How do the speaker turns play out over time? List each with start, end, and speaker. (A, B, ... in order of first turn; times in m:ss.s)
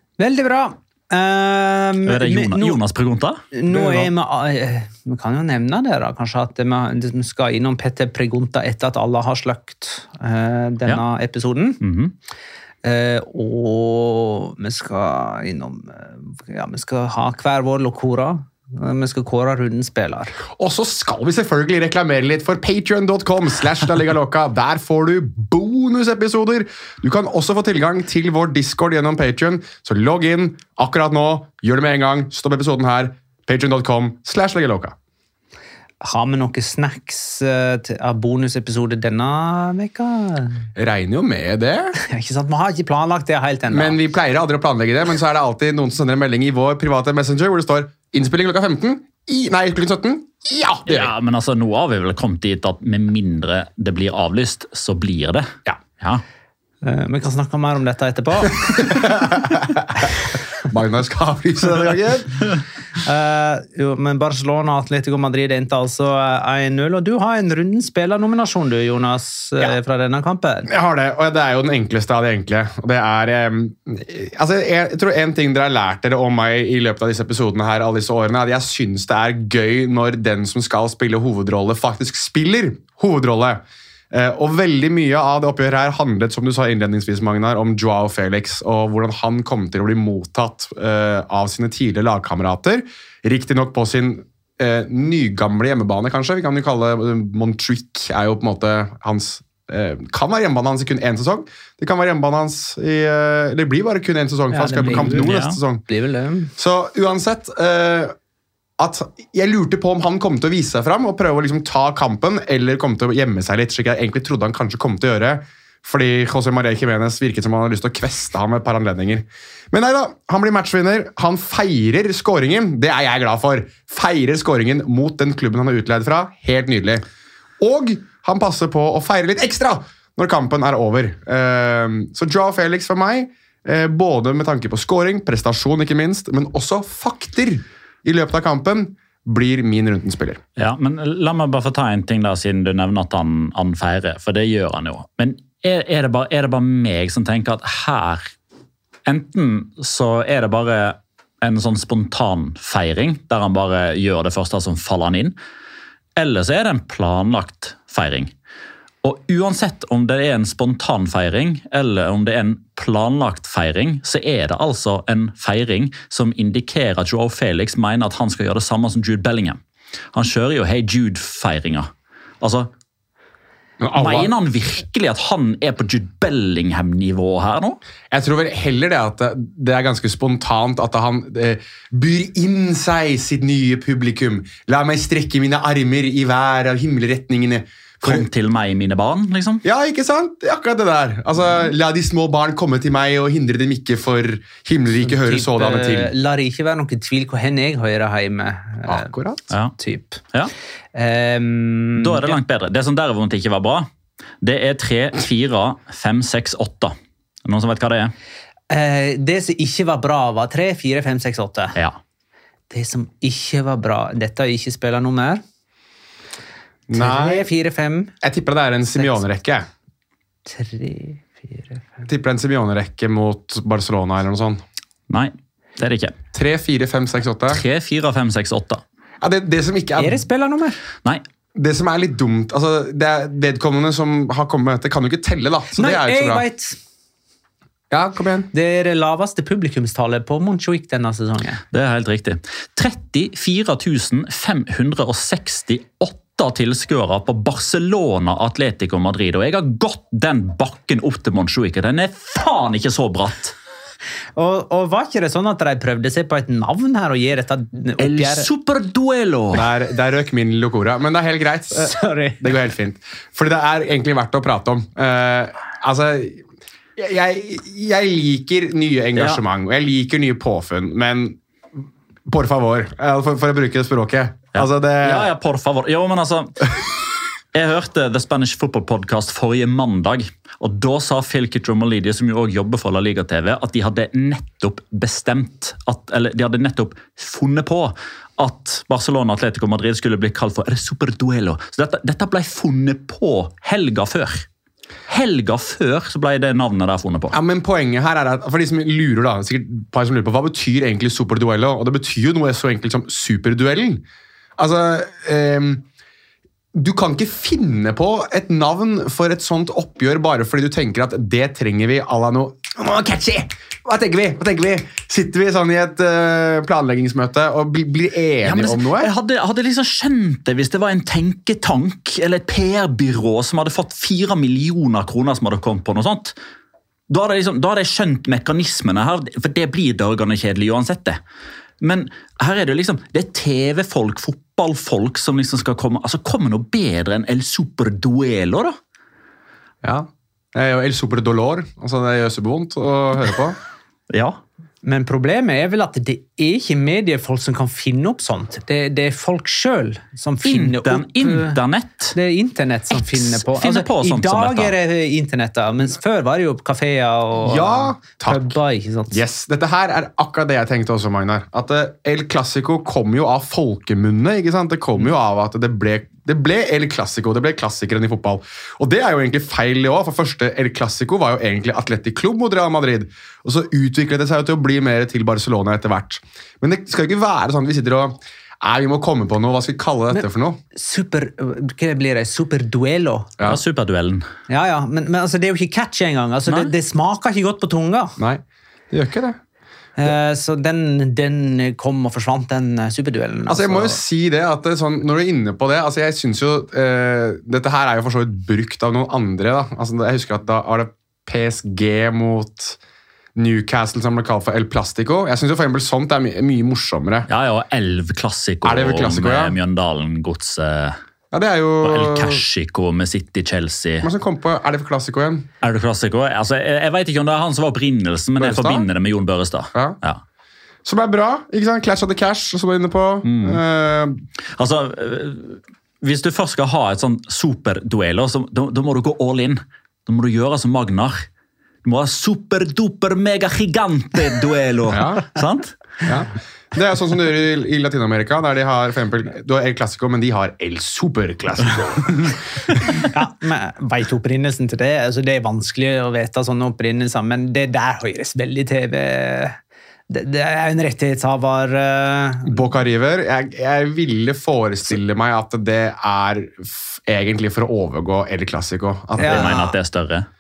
0:00.2-0:02.8 A
0:02.0-0:03.4 B
0:03.5-0:11.8 A
0:03.8-0:04.1 C
0:11.8-0:12.1 B
0:12.8-0:20.3 A
0:20.5-0:34.9 C
0:36.0-0:40.6 A
0:40.8-0:42.0 C
0:42.0-0:44.0 A
0:43.7-0:51.1 C
0:50.9-0:56.2 B
0:56.8-0:59.0 A
0:58.7-1:02.5 C
1:03.0-1:10.7 A
1:10.7-1:45.8 C
1:44.5-1:45.3 A
1:44.8-1:45.6 B
1:45.9-1:46.5 A
1:46.6-1:48.1 C
1:48.8-2:07.0 C
2:07.6-2:20.4 C
2:20.6-2:28.3 B
2:29.0-2:35.4 B
2:36.2-2:38.3 B
2:39.0-2:49.6 B
2:50.1-2:51.9 B
2:52.4-2:52.7 B
2:53.8-2:54.3 C
2:53.9-2:57.8 B
2:58.1-3:08.2 C
3:08.0-3:09.6 B
3:09.6-3:16.1 C
3:15.0-3:19.1 A
3:18.8-3:19.5 C
3:19.8-3:20.2 A
3:20.9-3:22.4 A
3:22.0-3:23.9 B
3:24.4-3:28.1 B
3:28.7-3:31.8 A
3:32.7-3:35.4 A
3:36.9-3:37.4 C
3:36.9-3:38.1 A
3:38.2-3:39.7 C
3:40.4-3:42.0 A
3:42.0-3:44.6 C
3:45.1-3:46.1 B
3:46.3-3:47.6 C
3:47.5-3:48.8 B
3:49.2-3:50.2 C
3:50.0-3:50.8 A
3:51.5-3:56.4 C
3:55.7-3:56.8 A
3:57.9-3:58.5 C
3:58.5-4:01.6 A
4:01.7-4:13.5 B
4:14.4-4:18.5 A
4:18.0-4:19.7 B
4:19.5-4:26.4 C
4:21.7-4:22.5 A
4:27.0-4:35.3 C
4:29.2-4:29.4 B
4:34.6-4:36.8 B
4:37.5-4:54.4 B
4:55.1-4:57.4 B
4:57.3-5:04.0 C
5:04.6-5:05.8 C
5:06.7-5:19.1 C
5:18.4-5:26.4 B
5:27.1-5:31.2 B
5:31.8-5:38.8 B
5:39.8-5:43.6 C
5:44.1-5:44.4 B
5:44.8-5:51.6 A
5:50.4-5:52.2 B
5:52.1-5:59.2 A
5:52.9-5:54.7 B
5:57.4-5:58.6 C
5:59.1-6:20.6 C
6:20.7-6:23.3 A
6:23.4-6:24.2 B
6:24.5-6:28.2 A
6:28.2-6:29.4 C
6:30.0-6:34.0 A
6:33.5-6:42.8 C
6:43.4-6:47.3 C
6:47.3-6:51.0 B
6:48.6-6:49.6 C
6:51.3-6:52.4 C
6:51.8-6:54.1 B
6:54.0-6:55.5 C
6:55.6-7:00.2 B
6:58.4-6:58.9 C
7:00.8-7:04.2 C
7:03.2-7:03.6 B
7:04.5-7:11.2 B
7:11.8-7:16.0 B
7:14.9-7:15.2 C
7:16.0-7:23.0 C
7:23.1-7:29.6 A
7:30.1-7:32.6 A
7:32.4-7:39.7 C
7:39.2-7:39.6 A
7:39.2-7:40.3 B